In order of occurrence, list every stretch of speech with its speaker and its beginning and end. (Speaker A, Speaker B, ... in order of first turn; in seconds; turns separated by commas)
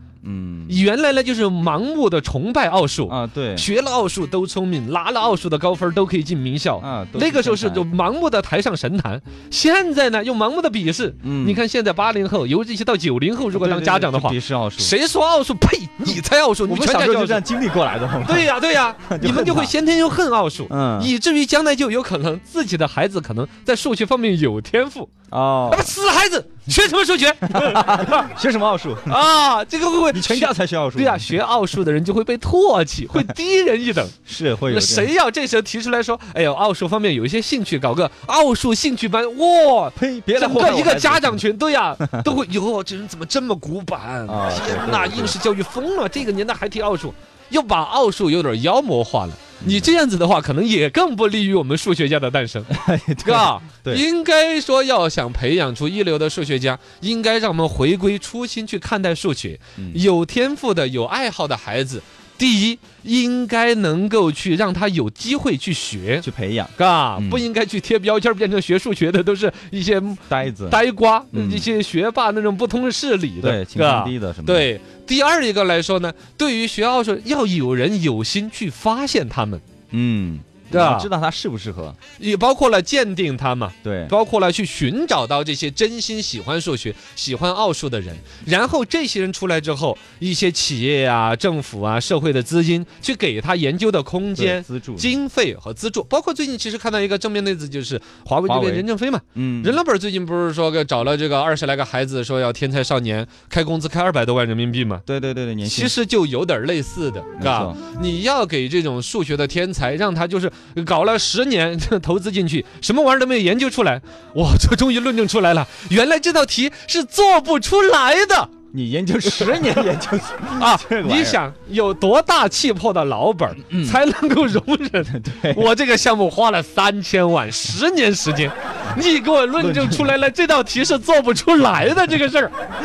Speaker A: 0.2-0.8, Speaker B: 0.7-17.4, Speaker A: 3.0-3.7, Speaker A: 6.8-7.9, Speaker A: 11.2-11.6, Speaker A: 13.5-14.9, Speaker A: 16.7-19.7, Speaker B: 18.2-25.1, Speaker A: 20.7-21.1, Speaker A: 25.3-25.9, Speaker B: 25.7-28.3, Speaker A: 27.4-29.1, Speaker B: 29.1-34.2, Speaker A: 30.1-31.3, Speaker A: 34.2-35.1, Speaker B: 34.7-52.7, Speaker A: 40.0-41.4, Speaker A: 44.2-45.4, Speaker A: 49.6-49.9, Speaker A: 52.7-54.0, Speaker B: 53.2-66.2, Speaker A: 59.8-60.0, Speaker A: 66.2-67.4, Speaker B: 66.8-79.6, Speaker A: 70.3-70.8, Speaker A: 71.3-71.7, Speaker A: 73.4-74.7, Speaker A: 79.9-82.0, Speaker B: 80.7-81.1, Speaker B: 82.2-105.0, Speaker A: 83.8-84.1, Speaker A: 94.3-95.1, Speaker A: 98.5-99.8, Speaker A: 105.0-105.9, Speaker B: 105.6-118.5, Speaker A: 107.4-107.8, Speaker A: 118.7-121.4, Speaker B: 119.3-119.9, Speaker B: 120.5-132.5, Speaker A: 123.7-124.0, Speaker A: 125.1-125.7, Speaker A: 129.6-130.1